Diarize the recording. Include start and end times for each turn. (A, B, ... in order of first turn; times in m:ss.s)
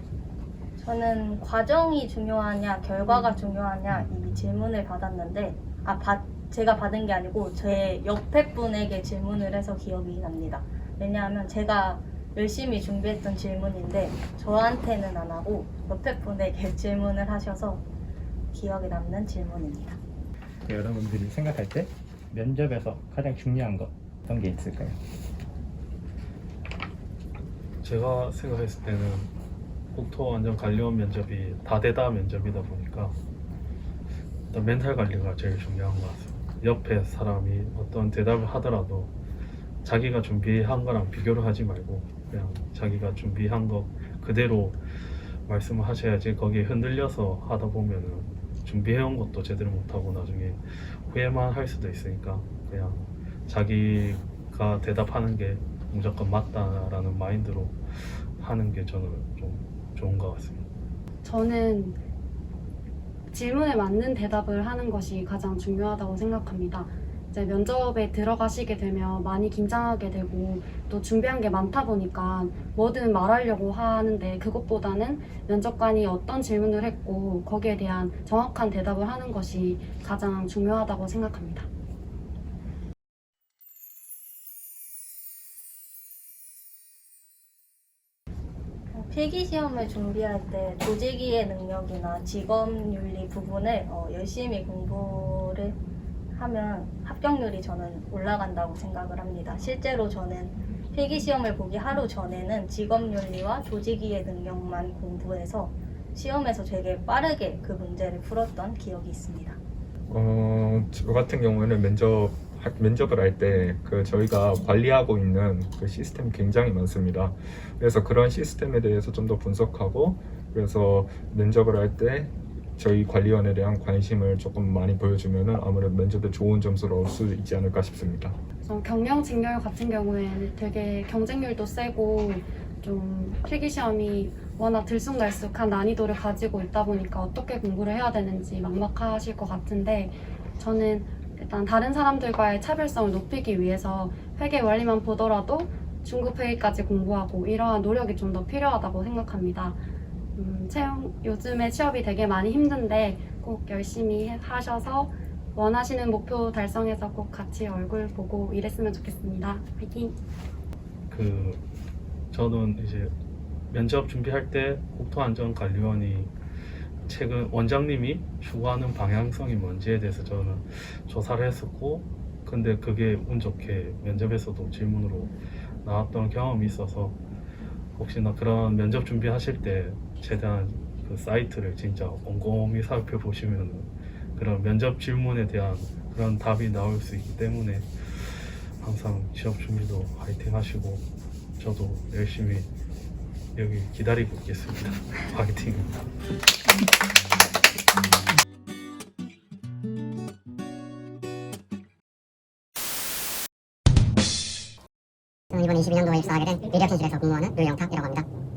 0:00.8-0:17.8 A
0:18.5-0:20.0 A
0:20.7-0:25.0 B
0:27.8-0:29.3 C
0:29.9-0:33.2 C
0:34.5-0:39.1 C
0:39.8-0:44.8 C
0:45.5-1:00.6 C
1:01.2-1:02.0 D
1:03.3-1:21.7 D
1:28.9-1:35.8 A
1:36.4-1:49.6 A
1:50.1-2:08.4 E
2:08.6-2:29.8 D
2:30.4-2:40.2 D
2:41.1-2:41.6 C
2:42.3-2:43.1 C
2:43.7-2:46.3 C
2:47.1-2:57.2 C
2:58.0-3:11.0 C
3:11.6-3:12.7 C
3:13.6-3:15.9 C
3:25.5-3:28.3 F